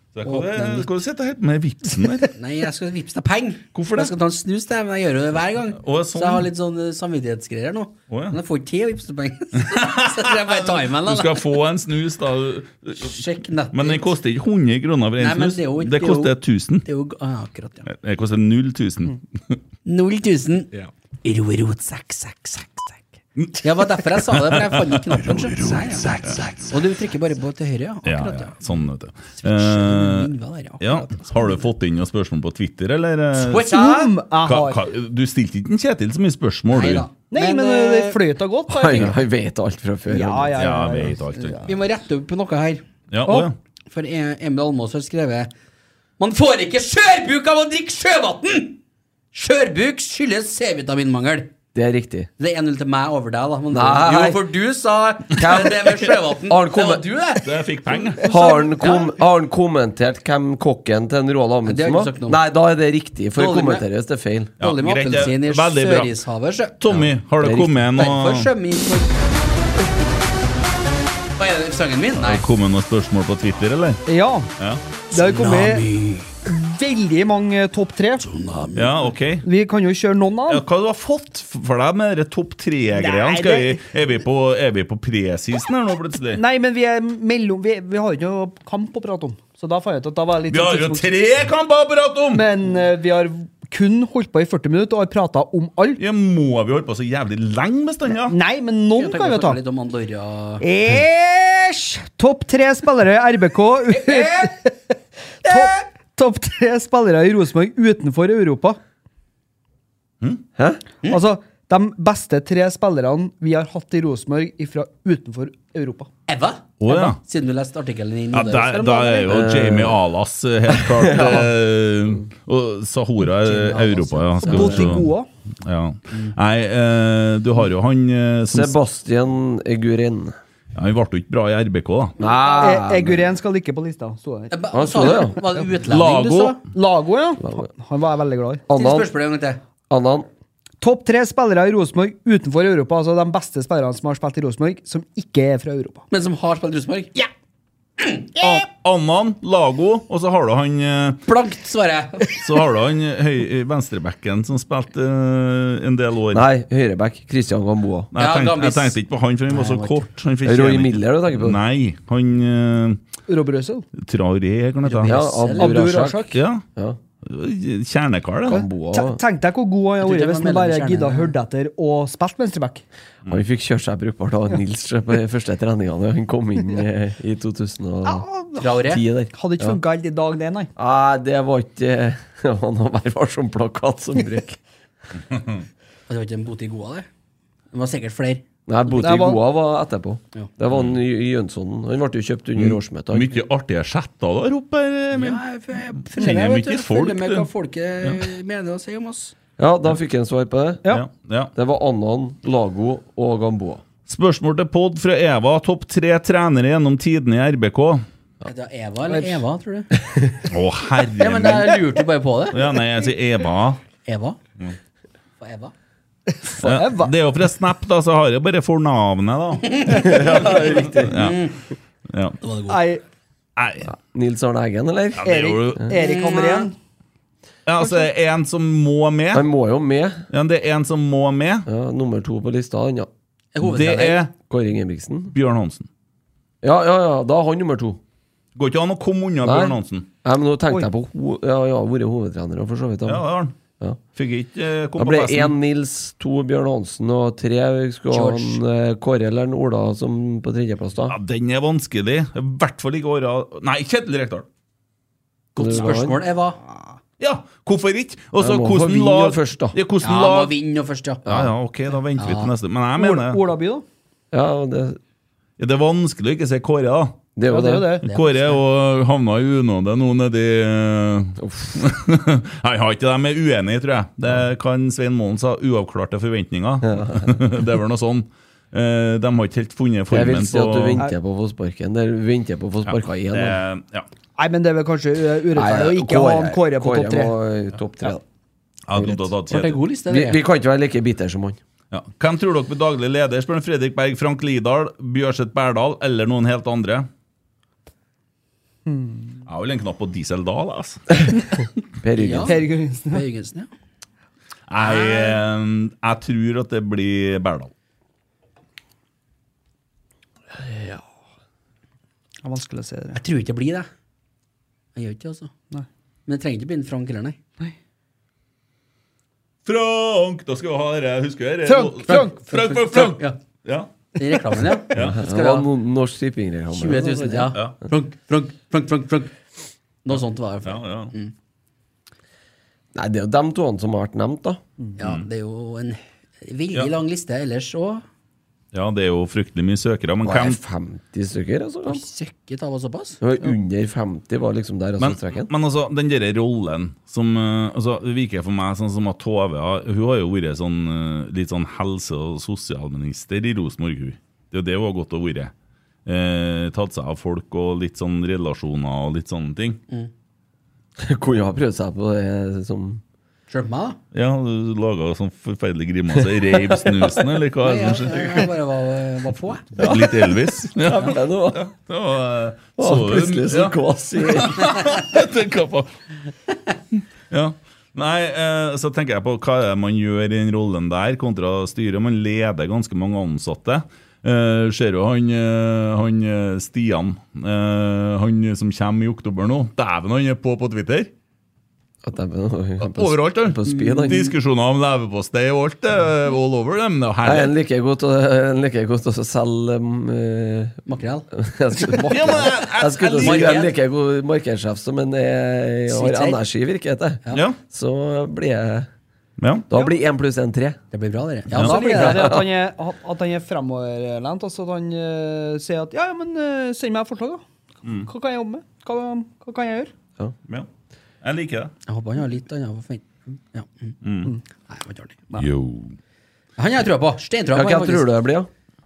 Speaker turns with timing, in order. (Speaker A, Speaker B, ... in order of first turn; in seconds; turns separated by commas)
Speaker A: 0.1-2.3, Speaker B: 0.2-0.9, Speaker B: 2.3-11.4, Speaker A: 3.7-4.1, Speaker A: 5.8-6.5, Speaker A: 8.1-8.4, Speaker A: 9.7-13.2, Speaker B: 13.0-14.1, Speaker A: 13.7-16.9, Speaker B: 15.2-17.9, Speaker A: 17.9-19.6, Speaker B: 19.8-20.7, Speaker B: 21.2-23.0, Speaker A: 23.4-26.7, Speaker B: 23.6-28.6, Speaker A: 28.0-33.7, Speaker B: 29.4-31.6, Speaker B: 33.3-34.1, Speaker C: 33.6-34.8, Speaker A: 34.4-37.1, Speaker B: 36.7-38.2, Speaker C: 37.3-39.1, Speaker D: 38.7-40.7, Speaker C: 40.1-41.8, Speaker A: 40.6-41.6, Speaker B: 41.6-42.8, Speaker A: 43.1-43.5, Speaker B: 43.9-45.5, Speaker B: 46.2-48.8, Speaker B: 49.3-51.5, Speaker D: 51.7-52.3, Speaker B: 52.4-57.4, Speaker D: 53.7-54.4, Speaker D: 55.3-57.0, Speaker A: 57.4-58.2, Speaker B: 58.2-59.1, Speaker D: 58.2-64.5, Speaker B: 61.6-62.4, Speaker B: 63.4-63.9, Speaker B: 64.6-67.0, Speaker A: 64.6-66.1, Speaker A: 66.8-68.5, Speaker D: 67.4-67.7, Speaker B: 67.9-69.2, Speaker B: 71.4-72.4, Speaker A: 72.2-74.0, Speaker C: 74.1-74.5, Speaker B: 75.1-76.3, Speaker C: 75.1-75.9, Speaker C: 76.5-78.3, Speaker B: 78.2-78.9, Speaker A: 78.7-79.4, Speaker C: 79.4-80.6, Speaker A: 80.5-86.4, Speaker C: 82.9-83.8, Speaker C: 86.3-91.1, Speaker A: 90.5-92.5, Speaker C: 92.3-96.0, Speaker A: 96.0-98.4, Speaker C: 98.3-99.6, Speaker B: 98.9-100.6, Speaker C: 100.6-104.7, Speaker B: 103.9-104.5, Speaker C: 105.4-108.8, Speaker C: 111.1-116.1, Speaker B: 116.3-119.2, Speaker A: 116.8-117.2, Speaker A: 118.3-125.1, Speaker D: 119.3-120.0, Speaker D: 120.7-121.5, Speaker B: 123.4-124.9, Speaker C: 124.4-125.3, Speaker A: 125.6-128.7, Speaker D: 128.5-130.3, Speaker A: 130.7-132.2, Speaker D: 132.2-133.4, Speaker C: 132.6-135.3, Speaker B: 134.5-136.6, Speaker D: 134.7-135.4, Speaker A: 135.9-136.6, Speaker C: 136.7-138.6, Speaker D: 138.7-139.1, Speaker B: 138.7-139.6, Speaker D: 139.9-140.3, Speaker C: 140.8-146.0, Speaker B: 146.1-147.3, Speaker B: 148.0-148.4, Speaker A: 148.4-151.2, Speaker B: 151.3-152.4, Speaker A: 152.4-156.5, Speaker D: 156.3-158.1, Speaker A: 158.1-163.0, Speaker B: 158.2-159.0, Speaker B: 159.5-160.0, Speaker D: 160.4-161.6, Speaker C: 163.3-163.8, Speaker A: 164.0-165.1, Speaker B: 164.8-165.7, Speaker D: 165.0-167.0, Speaker C: 165.6-166.4, Speaker A: 166.3-166.6, Speaker A: 167.2-168.6, Speaker D: 168.5-169.2, Speaker C: 168.5-172.8, Speaker B: 170.0-171.3, Speaker D: 173.2-178.2, Speaker C: 178.0-178.7, Speaker B: 178.6-179.0, Speaker D: 178.8-179.8, Speaker C: 179.3-180.7, Speaker D: 180.8-184.6, Speaker B: 186.1-187.1, Speaker B: 187.7-188.4, Speaker D: 188.7-193.4, Speaker C: 188.9-189.4, Speaker A: 190.7-191.0, Speaker A: 192.6-195.4, Speaker B: 195.2-199.3, Speaker A: 196.1-197.5, Speaker D: 199.6-200.8, Speaker A: 200.9-201.5, Speaker D: 201.6-203.8, Speaker A: 204.1-208.0, Speaker B: 208.4-209.9, Speaker C: 209.1-209.4, Speaker A: 210.5-211.8, Speaker B: 211.2-212.6, Speaker A: 212.5-213.8, Speaker B: 214.0-214.4, Speaker B: 215.4-215.7, Speaker C: 216.4-217.1, Speaker A: 216.6-221.4, Speaker B: 219.6-221.6, Speaker D: 219.9-221.2, Speaker A: 222.1-222.4, Speaker B: 222.4-222.8, Speaker C: 222.7-223.0, Speaker A: 223.6-223.9, Speaker D: 223.9-225.3, Speaker A: 225.2-225.9, Speaker C: 225.2-226.7, Speaker B: 225.9-226.7, Speaker A: 227.7-229.4, Speaker D: 229.3-230.2, Speaker A: 230.3-231.7, Speaker D: 231.7-233.1, Speaker B: 233.5-234.2, Speaker A: 233.6-234.3, Speaker D: 234.5-235.3, Speaker A: 235.3-235.9, Speaker D: 236.6-238.0, Speaker A: 238.6-240.1, Speaker D: 239.4-243.2, Speaker A: 243.1-243.5, Speaker A: 244.2-245.5, Speaker D: 245.0-251.2, Speaker B: 248.1-248.6, Speaker A: 251.1-254.4, Speaker B: 255.5-256.6, Speaker D: 255.6-256.2, Speaker A: 257.2-260.5, Speaker D: 258.4-259.8, Speaker B: 260.0-261.2, Speaker D: 261.2-261.5, Speaker A: 261.2-263.4, Speaker B: 262.2-262.5, Speaker C: 263.0-263.8, Speaker D: 264.3-265.0, Speaker A: 265.6-267.2, Speaker D: 267.4-268.0, Speaker C: 267.5-268.1, Speaker B: 268.0-268.6, Speaker A: 268.1-281.0, Speaker D: 271.4-271.8, Speaker D: 276.8-277.4, Speaker D: 280.1-283.6, Speaker A: 282.9-284.1, Speaker C: 284.4-287.3, Speaker D: 285.5-288.2, Speaker A: 288.9-289.8, Speaker D: 288.9-289.2, Speaker B: 289.5-290.4, Speaker D: 290.1-291.6, Speaker A: 291.9-297.1, Speaker C: 298.9-299.4, Speaker A: 299.4-301.7, Speaker D: 302.0-302.6, Speaker B: 302.1-303.7, Speaker C: 302.4-303.2, Speaker A: 304.7-307.7, Speaker B: 305.0-305.3, Speaker D: 310.7-311.0, Speaker C: 312.4-313.2, Speaker B: 313.1-313.9, Speaker B: 314.9-315.5, Speaker B: 316.3-317.4, Speaker A: 319.6-323.9, Speaker C: 321.6-322.3, Speaker B: 322.1-323.4, Speaker B: 324.1-325.7, Speaker A: 324.9-325.2, Speaker D: 324.9-327.6, Speaker B: 326.7-329.3, Speaker B: 330.0-331.3, Speaker A: 330.6-331.1, Speaker D: 332.9-334.6, Speaker B: 335.0-338.0, Speaker A: 335.0-335.2, Speaker A: 338.7-340.6, Speaker D: 340.2-342.0, Speaker B: 341.9-343.2, Speaker D: 343.2-345.5, Speaker A: 345.0-355.5, Speaker A: 356.1-359.8, Speaker D: 361.0-363.0, Speaker B: 363.5-364.0, Speaker A: 364.1-368.5, Speaker D: 366.1-367.3, Speaker B: 367.6-369.7, Speaker D: 369.8-371.6, Speaker A: 369.8-375.9, Speaker D: 372.8-374.8, Speaker A: 377.3-391.1, Speaker D: 392.0-394.3, Speaker A: 392.8-397.5, Speaker B: 393.7-394.1, Speaker D: 397.2-400.8, Speaker B: 400.9-401.3, Speaker D: 401.3-408.9, Speaker A: 402.1-403.6, Speaker B: 403.2-403.7, Speaker B: 405.9-406.4, Speaker A: 407.3-407.6, Speaker A: 409.4-409.7, Speaker D: 409.7-410.8, Speaker B: 410.9-412.3, Speaker A: 411.5-411.8, Speaker C: 411.6-417.4, Speaker D: 411.8-412.4, Speaker A: 417.8-418.1, Speaker C: 418.0-419.9, Speaker A: 421.2-421.7, Speaker B: 421.9-423.9, Speaker A: 424.0-424.4, Speaker B: 424.7-425.2, Speaker A: 425.4-426.0, Speaker B: 426.6-428.1, Speaker D: 427.5-428.5